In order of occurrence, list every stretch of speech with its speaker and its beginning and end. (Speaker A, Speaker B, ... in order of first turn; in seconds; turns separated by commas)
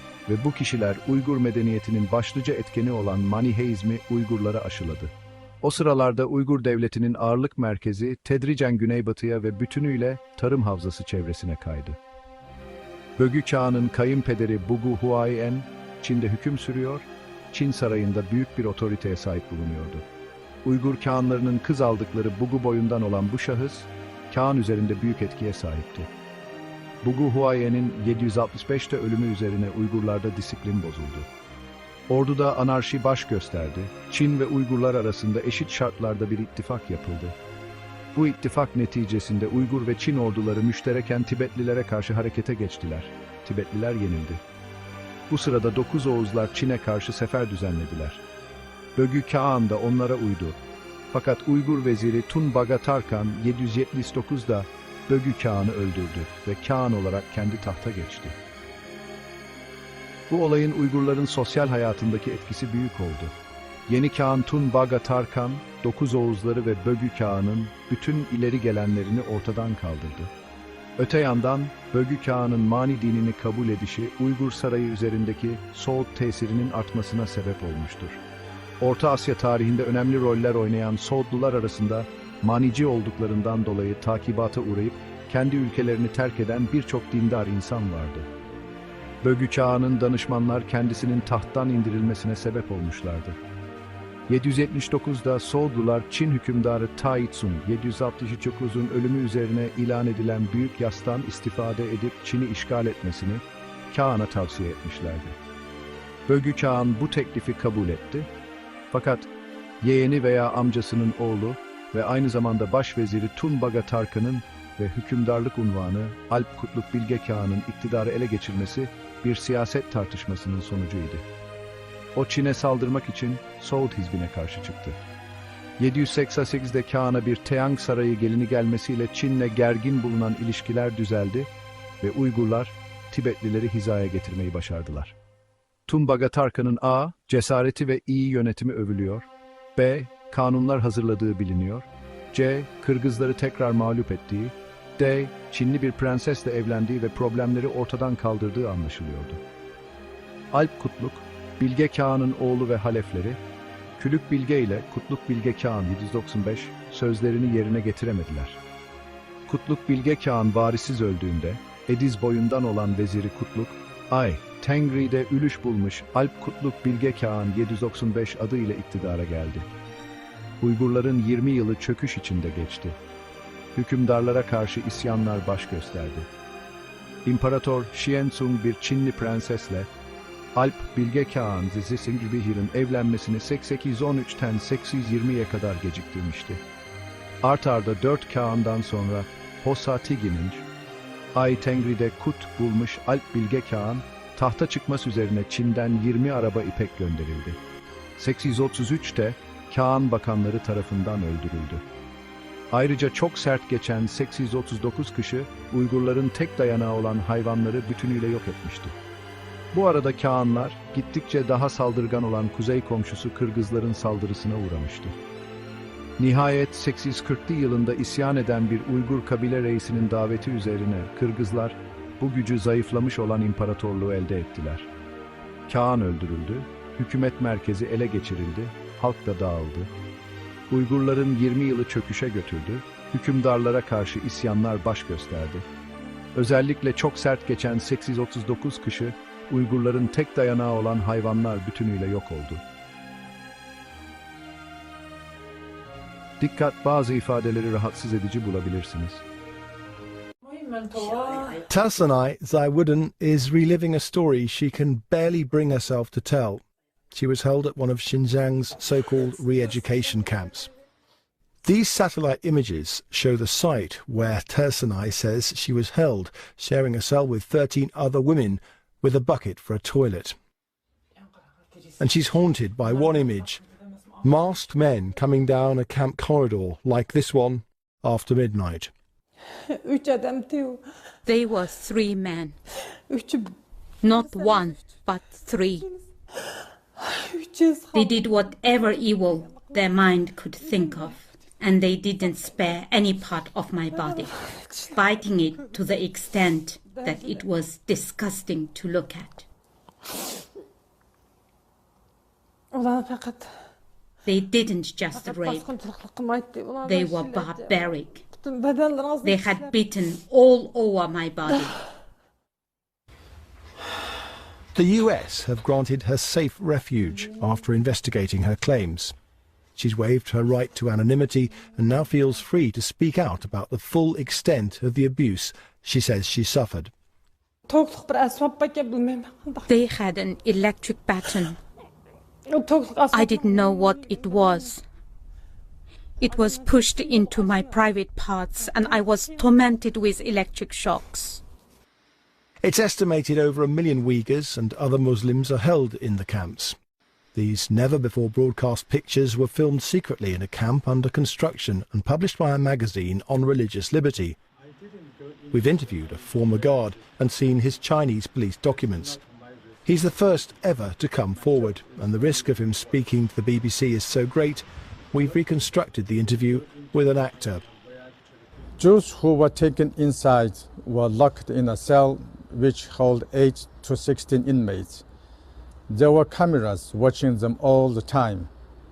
Speaker A: 0.3-12.0, Speaker A: 13.2-20.1, Speaker A: 20.6-26.1, Speaker A: 27.0-31.3, Speaker A: 32.1-37.4, Speaker A: 38.1-44.4, Speaker A: 45.3-48.2, Speaker A: 49.0-50.6, Speaker A: 51.1-58.4, Speaker A: 60.3-63.3, Speaker A: 63.9-70.3, Speaker A: 71.0-78.2, Speaker A: 78.8-88.3, Speaker A: 89.2-93.4, Speaker A: 94.3-105.4, Speaker A: 106.3-108.3, Speaker A: 108.9-109.3, Speaker A: 109.8-121.2, Speaker A: 122.2-125.0, Speaker A: 125.8-131.5, Speaker A: 132.0-135.1, Speaker A: 135.9-149.4, Speaker A: 150.5-153.4, Speaker A: 154.0-158.6, Speaker A: 159.5-169.7, Speaker A: 170.6-173.0, Speaker A: 173.8-176.3, Speaker A: 177.2-179.9, Speaker A: 180.6-186.6, Speaker A: 187.4-190.7, Speaker A: 191.3-197.6, Speaker A: 198.2-201.8, Speaker A: 202.7-208.9, Speaker A: 209.7-215.2, Speaker A: 216.2-224.9, Speaker A: 225.7-229.9, Speaker A: 230.7-235.7, Speaker A: 236.3-242.6, Speaker A: 246.4-249.2, Speaker B: 251.5-260.7, Speaker B: 261.6-270.4, Speaker B: 272.0-273.6, Speaker B: 274.2-278.9, Speaker C: 279.7-280.8, Speaker D: 281.2-282.6, Speaker C: 283.1-283.6, Speaker D: 284.0-285.9, Speaker C: 287.0-288.2, Speaker D: 287.9-299.4, Speaker C: 294.1-294.9, Speaker C: 296.9-297.4, Speaker C: 302.7-303.5, Speaker D: 304.3-305.6, Speaker C: 305.1-307.8, Speaker D: 306.8-308.2, Speaker C: 308.4-309.7, Speaker D: 309.2-311.8, Speaker B: 314.7-319.1, Speaker B: 319.8-326.9, Speaker C: 327.7-329.7, Speaker D: 329.7-331.6, Speaker C: 332.5-334.6, Speaker D: 333.1-334.8, Speaker D: 336.2-341.4, Speaker C: 337.0-337.6, Speaker B: 342.6-346.8, Speaker B: 347.4-354.4, Speaker B: 355.5-359.2, Speaker B: 359.9-367.6, Speaker E: 368.8-375.0, Speaker E: 375.9-378.5